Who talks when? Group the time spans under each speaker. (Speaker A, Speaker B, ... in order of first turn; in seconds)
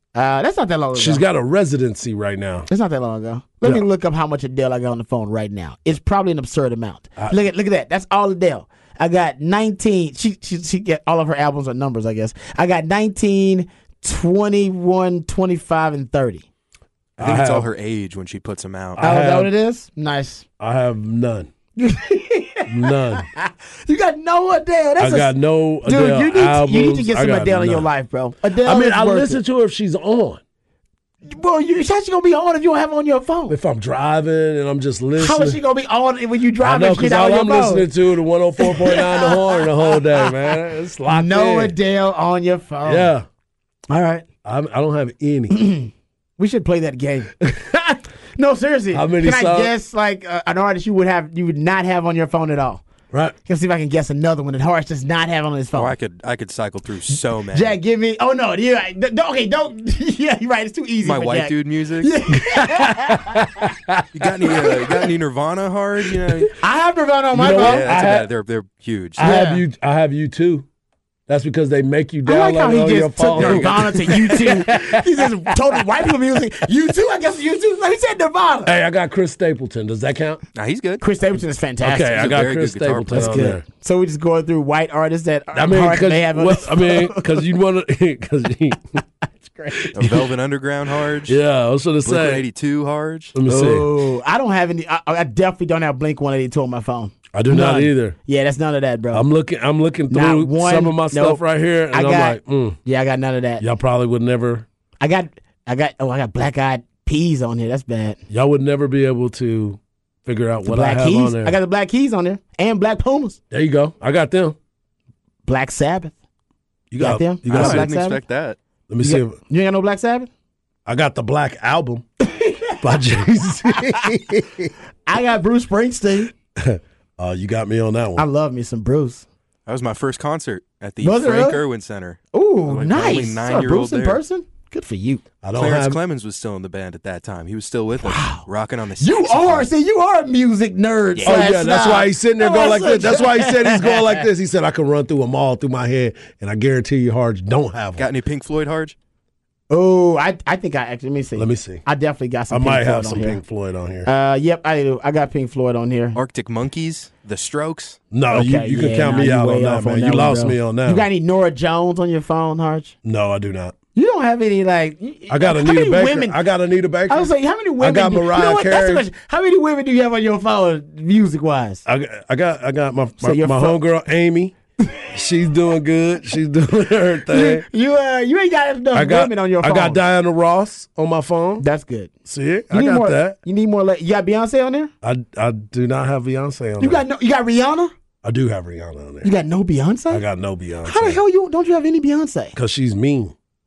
Speaker A: 0.1-1.2, 2.7-16.4, 19.0-20.4, 21.8-29.4, 31.3-33.6, 35.2-37.9, 38.6-43.1, 43.9-44.2, 45.5-47.3, 48.4-52.8, 53.5-55.9, 57.5-63.6, 66.6-67.9, 69.2-69.6, 72.2-78.8, 81.0-82.2, 83.1-87.4, 89.5-89.9, 93.5-99.3, 100.1-103.6, 105.0-108.2, 110.6-113.4, 115.5-116.1, 117.0-118.2, 119.0-120.3, 122.2-122.8, 125.1-126.3, 128.2-129.2, 131.0-131.6, 132.3-135.2, 138.1-138.4, 139.0-144.2, 149.7-153.4, 154.1-156.2, 158.3-162.9, 163.9-166.4, 167.1-171.8, 173.2-173.8, 177.3-180.0, 181.6-182.1, 182.7-184.9, 186.8-187.9, 189.2-190.2, 190.8-192.6
Speaker B: 0.9-2.7, 17.2-17.7, 18.9-19.5, 20.6-21.5, 22.7-23.2, 25.0-27.9, 28.6-30.4, 33.5-35.6, 36.6-41.7, 42.9-43.3, 44.5-45.6, 47.4-47.8, 48.9-49.7, 62.5-64.9, 67.3-68.3, 69.2-70.7, 71.3-76.1, 78.6-80.4, 81.8-83.6, 85.5-89.0, 89.8-90.3, 91.3-92.4, 93.3-93.9, 97.3-98.2, 99.1-102.8, 103.6-104.7, 108.3-111.6, 113.5-114.6, 116.9-117.9, 118.9-119.4, 120.9-122.0, 122.8-124.7, 126.6-128.2, 135.4-136.0, 141.2-148.1, 151.4-151.8, 152.5-154.1, 158.1-161.1, 163.0-163.7, 165.3-169.1, 171.9-174.6, 175.1-177.7, 178.9-181.6, 182.3-183.4, 185.0-187.0, 188.2-189.3, 190.1-191.2, 192.6-193.3
Speaker C: 17.2-19.0, 55.7-57.8, 61.0-62.1, 64.1-66.5, 67.5-69.3, 73.4-73.8, 80.5-81.0, 82.1-83.5, 90.0-91.4, 92.0-93.3, 117.5-118.6, 129.7-134.2, 135.5-139.7, 141.2-141.5, 148.0-148.9, 156.1-158.0